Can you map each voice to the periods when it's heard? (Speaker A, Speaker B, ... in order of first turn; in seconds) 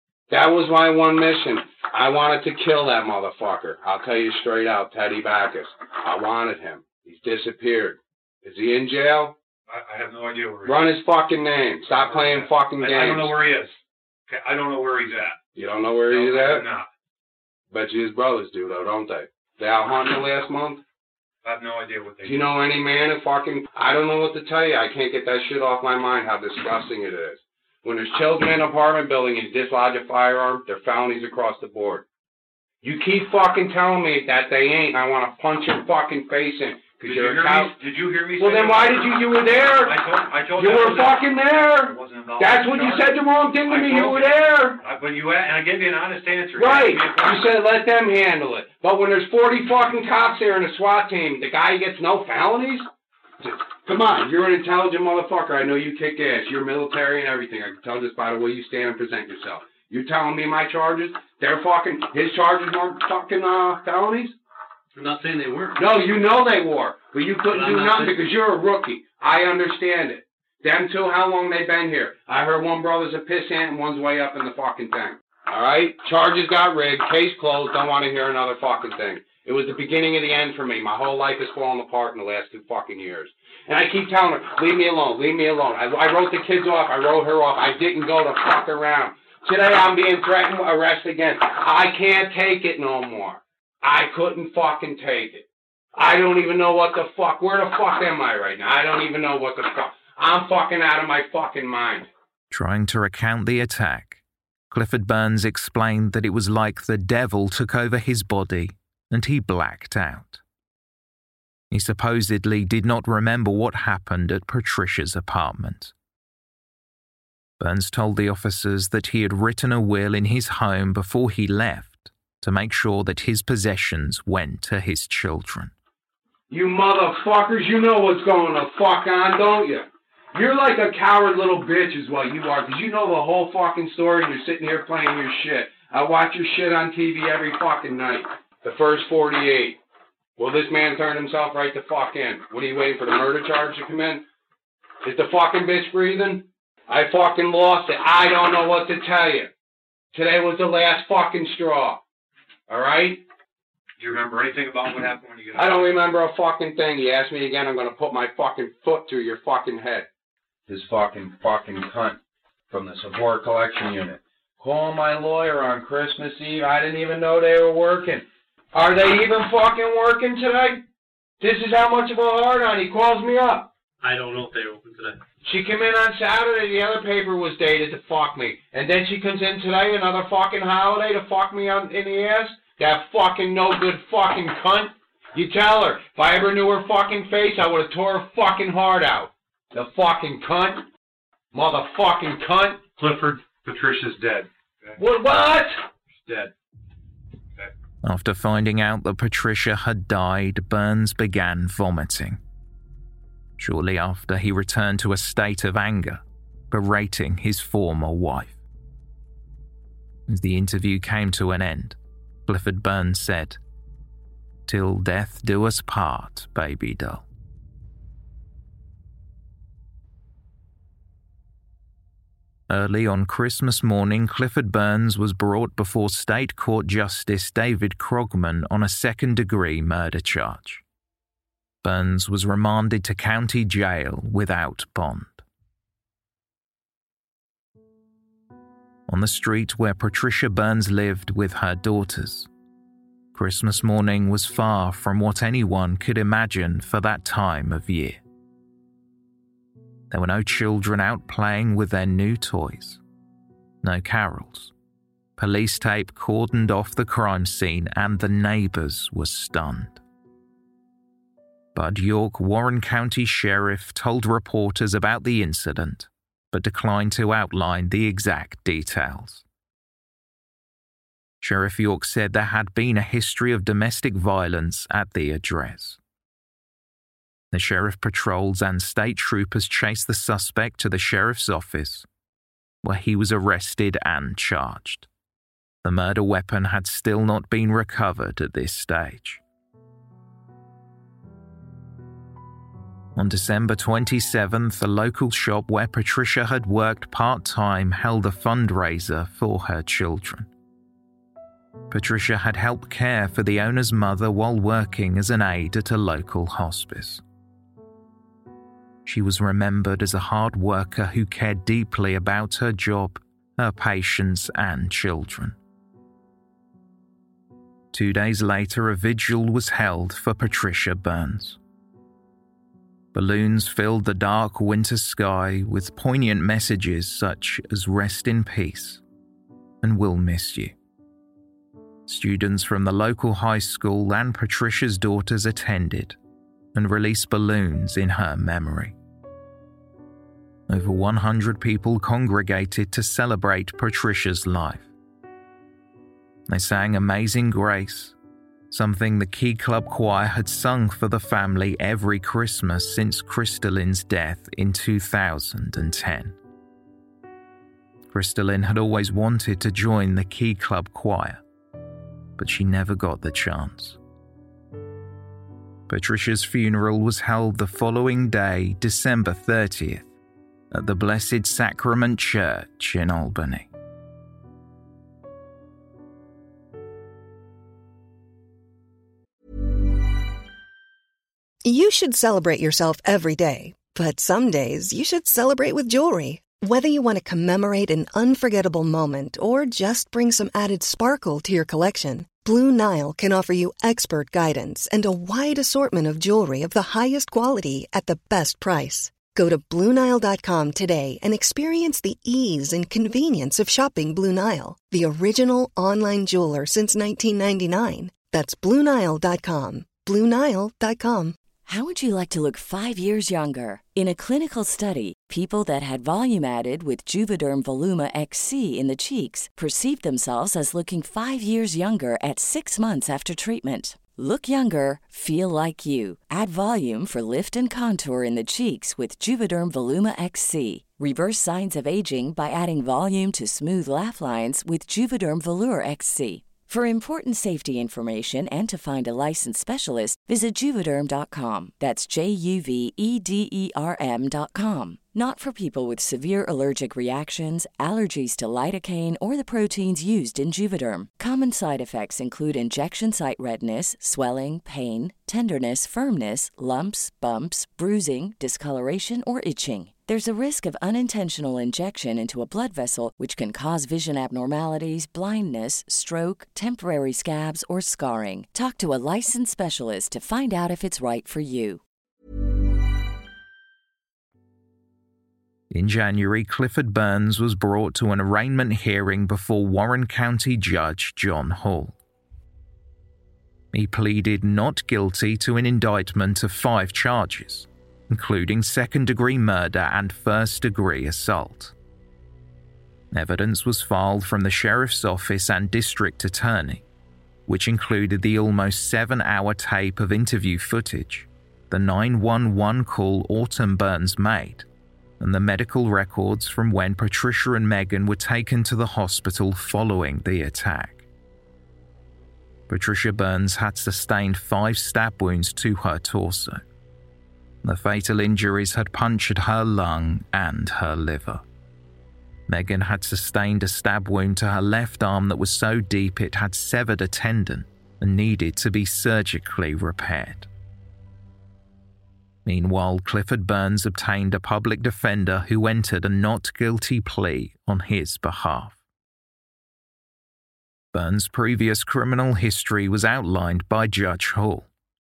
Speaker A: 0.3-9.3, 10.7-13.4, 15.6-16.7, 17.7-20.8, 22.2-32.0, 32.8-37.8, 38.4-44.8, 46.6-52.9, 53.4-64.3, 65.8-102.1, 126.5-139.8, 140.4-144.2, 145.0-149.5, 150.1-152.0, 152.7-153.2, 155.6-160.1, 160.7-162.2, 162.7-170.8, 171.4-173.7, 175.4-190.9, 191.5-192.8, 195.0-195.8
Speaker B: 9.7-10.9, 11.9-13.8, 14.3-15.4, 16.1-16.9, 21.4-22.6, 37.0-43.1, 43.7-47.5, 154.0-156.0, 193.0-195.0, 196.2-196.5
Speaker C: 65.0-65.8, 67.5-68.3, 174.0-175.2
Speaker D: 102.5-110.4, 111.7-115.9, 117.6-125.7, 198.0-202.4, 203.6-208.6, 210.3-213.6, 214.7-217.3, 222.7-230.8, 231.8-235.4, 239.1-242.5, 243.3-248.2, 250.1-253.0, 253.8-254.7, 255.4-260.0, 261.7-269.4, 271.4-276.0, 277.5-282.1, 282.8-285.1, 285.8-289.4, 293.1-300.5, 301.9-307.2, 309.1-315.6, 317.9-321.6, 323.1-329.0, 329.8-330.8, 332.1-336.2, 336.7-339.0, 340.7-344.9, 346.5-348.2, 348.7-356.4, 358.1-361.4, 362.4-364.0, 365.9-370.1, 370.7-373.7, 475.7-482.0, 483.7-491.8, 493.1-496.8, 497.5-504.7, 505.2-511.1, 512.7-516.6, 517.6-521.4, 522.5-530.5, 532.5-538.8, 540.9-544.7
Speaker E: 381.6-411.4
Speaker F: 411.7-471.8